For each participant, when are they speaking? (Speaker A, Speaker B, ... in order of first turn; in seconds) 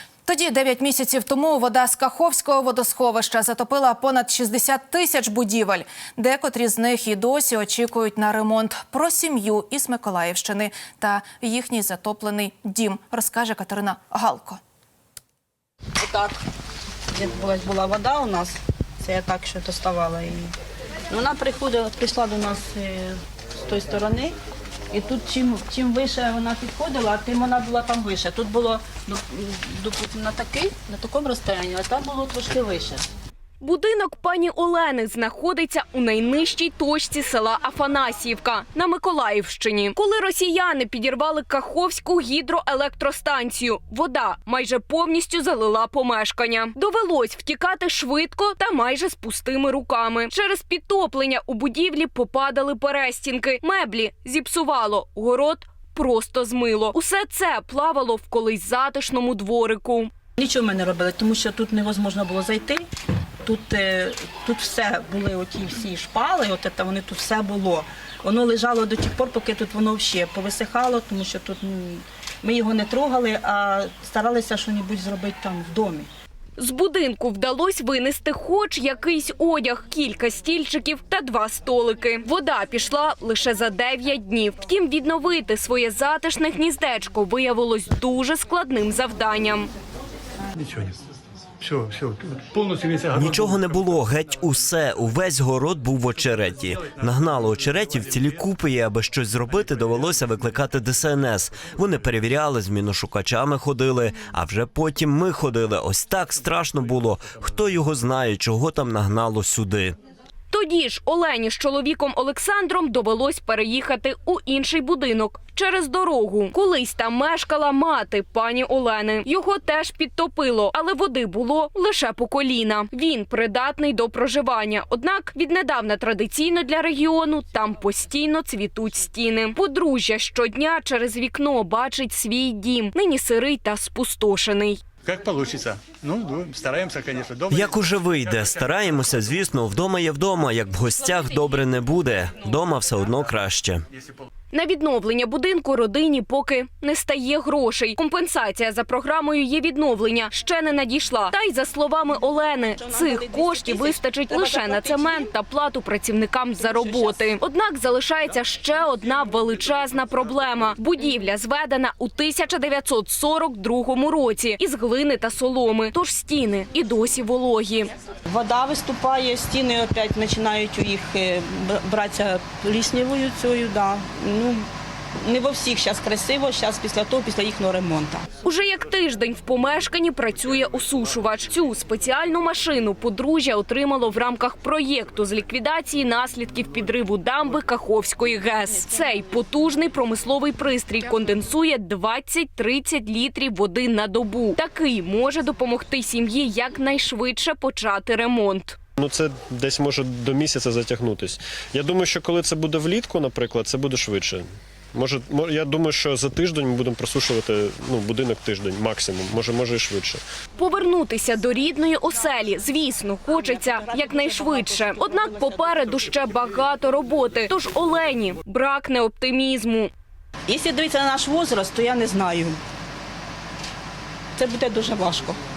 Speaker A: 0.3-14.6
Speaker B: 16.0-16.4, 17.1-20.5, 21.1-24.4, 24.9-33.1, 60.4-62.9, 63.5-76.1, 152.7-155.3, 156.6-157.3, 168.3-174.7, 175.2-178.3, 213.3-215.8, 220.5-222.6, 224.3-225.4
Speaker C: 33.6-60.1, 76.6-89.7, 110.5-134.8, 144.5-167.9, 178.4-198.8, 210.6-219.9
Speaker D: 90.5-91.0, 91.6-93.7, 135.1-138.4
Speaker E: 93.1-110.0, 137.5-143.8
Speaker F: 199.0-210.2